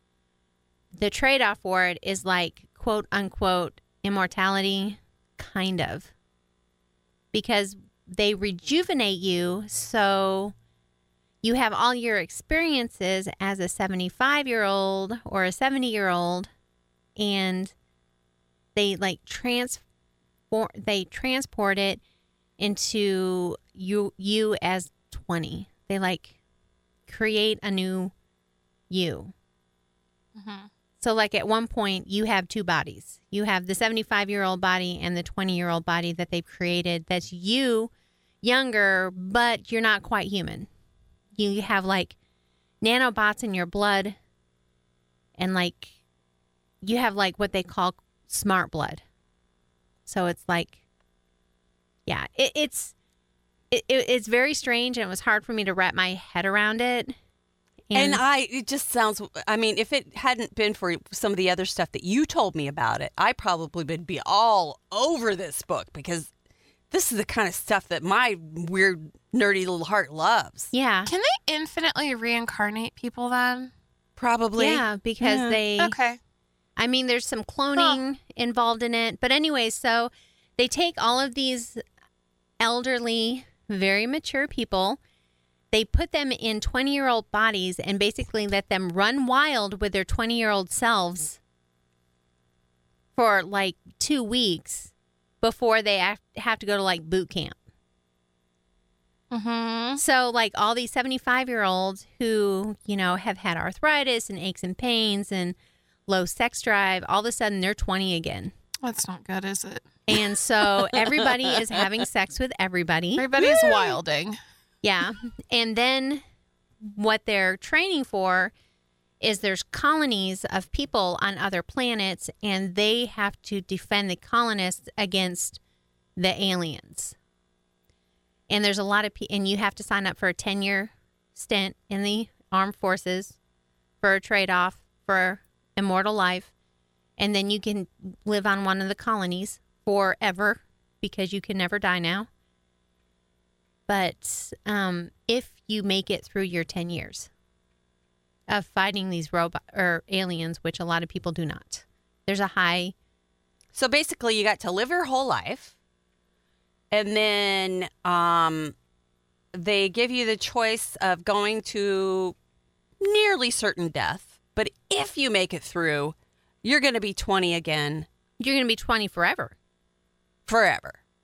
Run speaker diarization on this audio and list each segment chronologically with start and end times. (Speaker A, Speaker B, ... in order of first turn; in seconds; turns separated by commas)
Speaker A: 0.9-6.1, Speaker A: 7.3-10.5, Speaker A: 11.4-16.5, Speaker A: 17.2-17.7, Speaker A: 18.7-19.8, Speaker A: 20.5-22.0, Speaker A: 22.6-26.4, Speaker A: 27.1-28.1, Speaker A: 28.9-29.3, Speaker B: 30.4-30.7, Speaker A: 31.0-37.9, Speaker A: 38.4-40.7, Speaker A: 41.4-42.1, Speaker A: 42.8-44.1, Speaker A: 45.4-45.9, Speaker A: 46.8-49.0, Speaker A: 50.1-50.8, Speaker A: 52.1-52.9, Speaker A: 53.7-57.1, Speaker A: 57.9-58.2, Speaker C: 57.9-66.3, Speaker C: 66.9-70.7, Speaker A: 70.7-71.1, Speaker B: 71.1-73.7, Speaker C: 74.2-75.6, Speaker A: 74.6-76.0, Speaker B: 75.8-76.2, Speaker A: 76.8-81.8, Speaker A: 82.6-85.0, Speaker A: 85.7-91.4, Speaker A: 93.2-94.9, Speaker A: 95.4-97.6, Speaker B: 99.3-100.0, Speaker A: 100.0-105.6, Speaker A: 106.1-108.5, Speaker B: 108.8-109.9, Speaker A: 110.1-113.3, Speaker B: 113.2-114.4, Speaker C: 113.4-113.9, Speaker A: 114.8-116.2, Speaker A: 116.8-118.5, Speaker A: 119.2-125.6, Speaker A: 126.2-127.1, Speaker A: 128.5-133.4, Speaker A: 134.0-136.5, Speaker A: 137.2-142.3, Speaker A: 143.9-147.3, Speaker A: 148.5-152.9, Speaker C: 153.7-155.7, Speaker C: 156.9-158.7, Speaker C: 159.5-162.4, Speaker C: 163.0-168.1, Speaker A: 168.4-169.6, Speaker C: 170.5-171.0